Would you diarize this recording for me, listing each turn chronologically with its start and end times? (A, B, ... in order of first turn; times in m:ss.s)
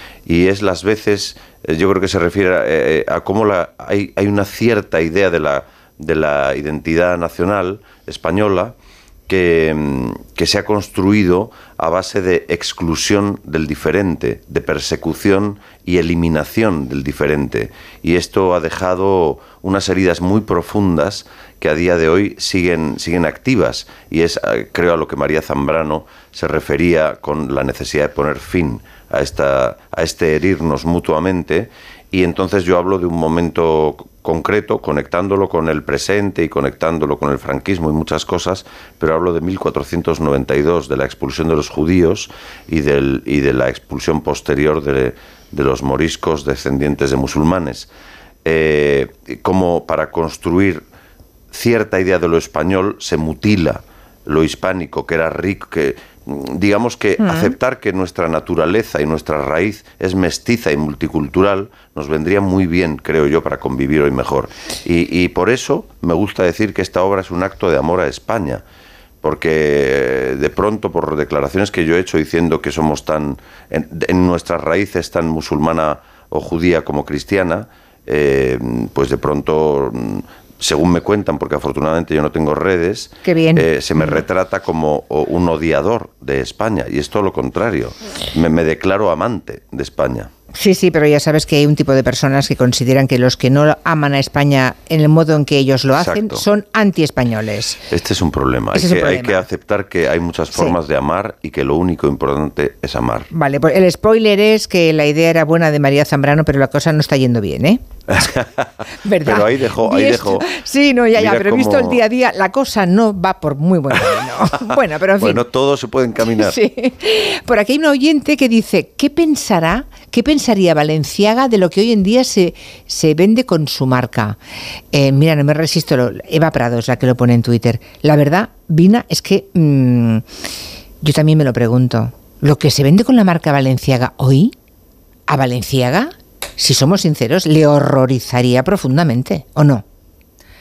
0:00.2-0:08.7 A
0:09.3-0:47.9 A
0:48.4-0:50.8 A
0:51.5-1:08.6 A
0:57.2-0:57.5 B
1:09.2-1:30.3 A
1:23.2-1:24.2 B
1:30.5-1:37.8 B
1:36.0-1:36.4 A
1:37.9-1:43.3 A
1:38.7-1:39.4 B
1:43.3-1:48.4 B
1:48.1-1:48.6 A
1:49.0-1:55.4 B
1:49.2-1:50.5 A
1:51.1-1:52.0 A
1:55.2-1:56.6 A
1:56.2-2:04.4 B
2:04.9-2:10.2 B
2:11.0-2:14.5 B
2:15.3-2:19.8 B